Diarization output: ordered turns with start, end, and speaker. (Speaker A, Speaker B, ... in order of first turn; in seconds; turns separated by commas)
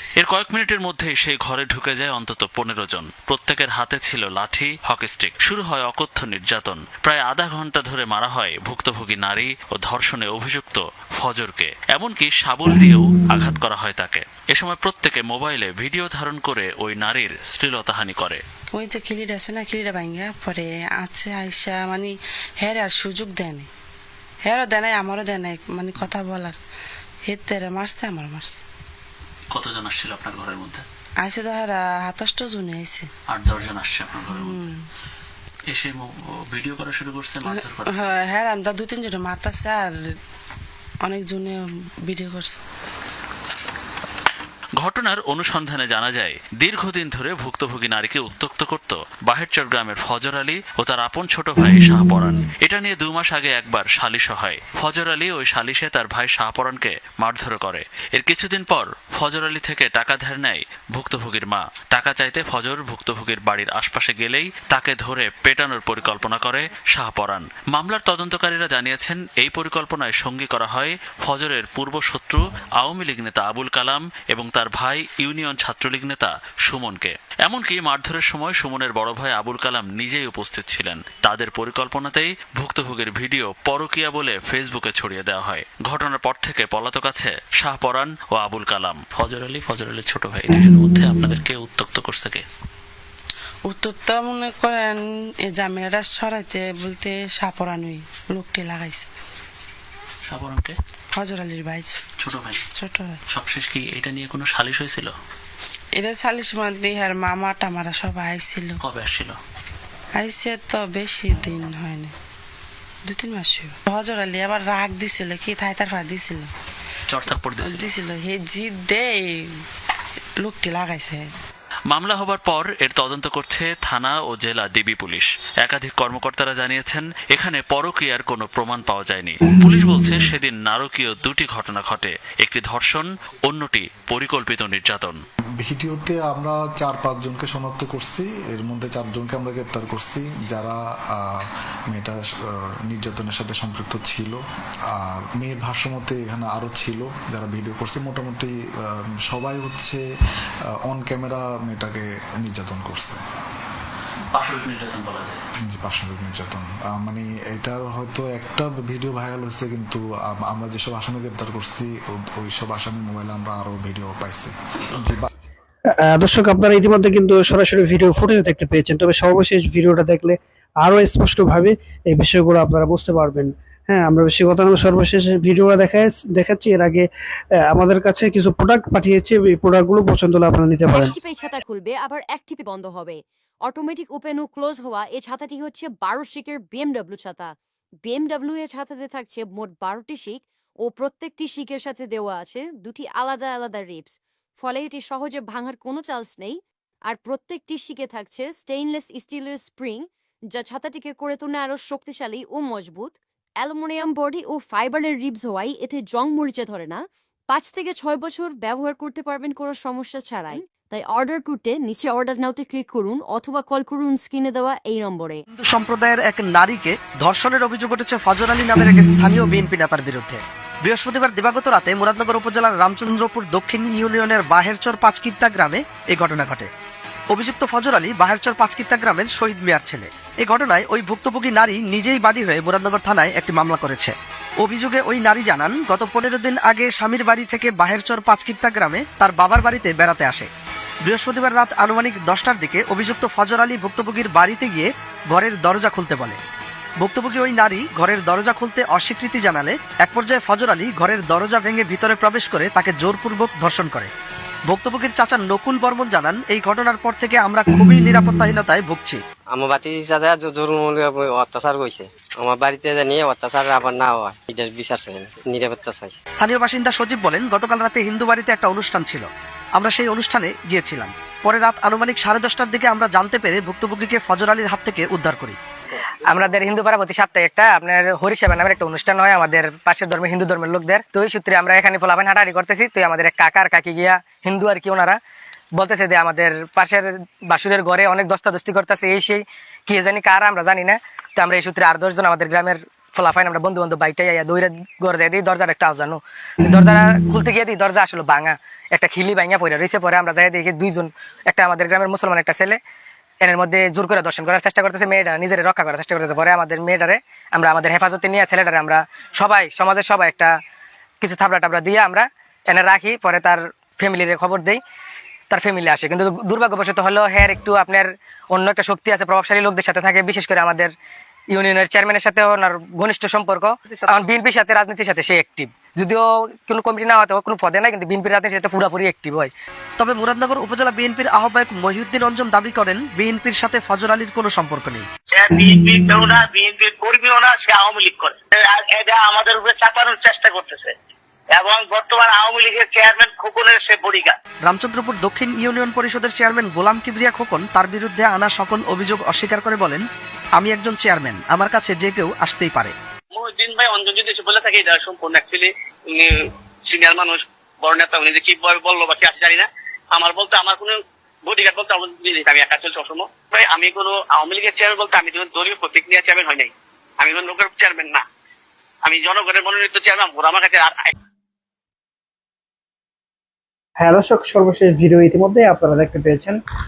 Speaker A: 0.2-18.4, Speaker B: 18.8-22.1, Speaker B: 22.6-23.7, Speaker B: 24.5-26.6, Speaker B: 27.3-28.5, Speaker A: 29.5-30.8, Speaker B: 31.3-33.1, Speaker A: 33.3-34.6, Speaker B: 34.4-34.7, Speaker A: 35.7-38.1, Speaker B: 37.5-39.9, Speaker B: 41.1-41.6, Speaker B: 42.1-42.6, Speaker A: 44.8-92.4, Speaker B: 93.7-95.0, Speaker B: 95.6-99.1, Speaker A: 100.2-100.8, Speaker B: 101.2-101.9, Speaker A: 102.2-102.6, Speaker B: 102.8-103.1, Speaker A: 103.3-105.1, Speaker B: 106.0-108.7, Speaker A: 108.8-109.4, Speaker B: 110.3-112.1, Speaker B: 113.1-116.5, Speaker A: 117.1-117.9, Speaker B: 117.7-119.3, Speaker B: 120.5-121.2, Speaker A: 121.9-135.2, Speaker C: 135.6-144.4, Speaker C: 144.9-148.5, Speaker C: 149.1-150.0, Speaker C: 150.9-153.2, Speaker A: 154.3-155.4, Speaker C: 155.7-165.3, Speaker A: 164.8-165.1, Speaker D: 166.1-177.0, Speaker D: 177.7-181.2, Speaker E: 180.9-215.4, Speaker F: 215.5-226.7, Speaker F: 227.3-240.5, Speaker F: 241.0-246.4, Speaker F: 247.0-254.1, Speaker F: 254.7-259.2, Speaker G: 259.5-266.1, Speaker F: 266.4-275.6, Speaker H: 276.2-285.2, Speaker H: 285.7-302.8, Speaker H: 303.4-310.6, Speaker H: 311.2-314.8, Speaker H: 315.5-320.9, Speaker H: 321.5-329.5, Speaker F: 323.9-324.3, Speaker F: 330.0-335.1, Speaker I: 335.3-340.9, Speaker I: 341.5-344.4, Speaker F: 344.7-350.0, Speaker F: 350.6-352.9, Speaker I: 353.3-356.3, Speaker I: 356.9-368.2, Speaker I: 369.0-371.1, Speaker D: 374.0-376.6